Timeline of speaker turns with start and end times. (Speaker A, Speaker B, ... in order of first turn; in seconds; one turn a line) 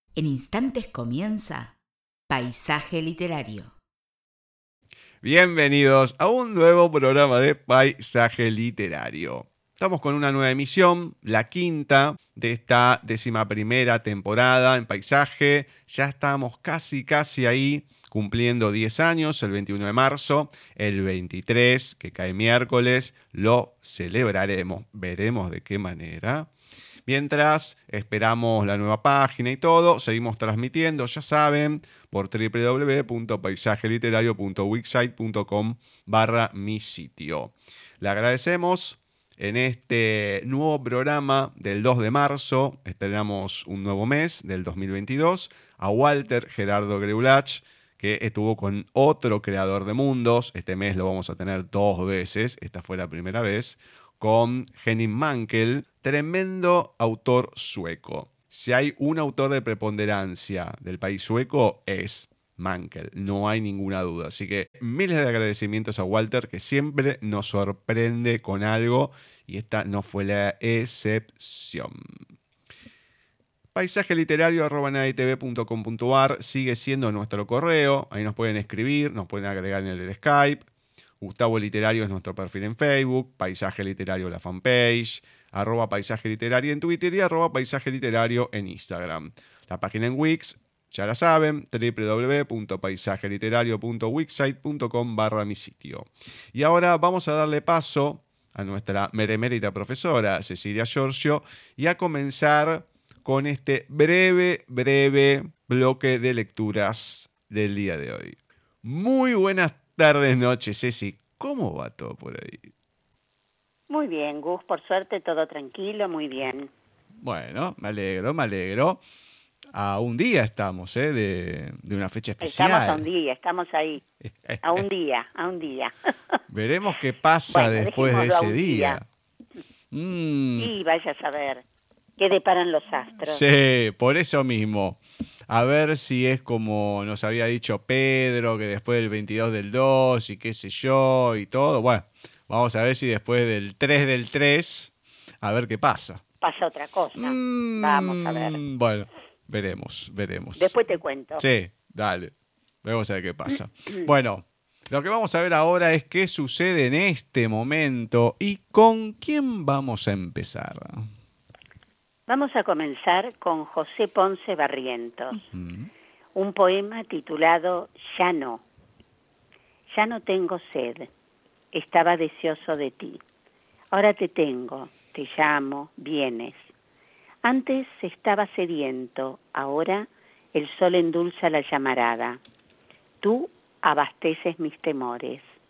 Speaker A: 0.1-1.8
Speaker A: 2.3-3.8
Speaker B: 5.2-26.5
Speaker B: 27.1-72.1
Speaker B: 73.7-80.7
Speaker B: 81.2-112.7
Speaker C: 113.9-116.7
Speaker B: 117.2-119.0
Speaker B: 119.7-123.1
Speaker C: 122.4-124.0
Speaker B: 124.3-124.8
Speaker C: 124.6-126.4
Speaker B: 126.5-129.1
Speaker C: 127.5-129.0
Speaker B: 129.9-130.7
Speaker C: 130.6-131.6
Speaker C: 132.2-133.4
Speaker B: 133.2-146.2
Speaker C: 146.4-148.6
Speaker B: 147.2-150.8
Speaker C: 150.6-151.4
Speaker B: 151.4-152.3
Speaker B: 152.8-161.1
Speaker C: 162.3-165.4
Speaker B: 165.4-165.9
Speaker C: 166.3-168.6
Speaker C: 169.9-171.1
Speaker C: 171.7-173.2
Speaker C: 173.9-176.7
Speaker C: 177.4-182.4
Speaker C: 183.2-185.5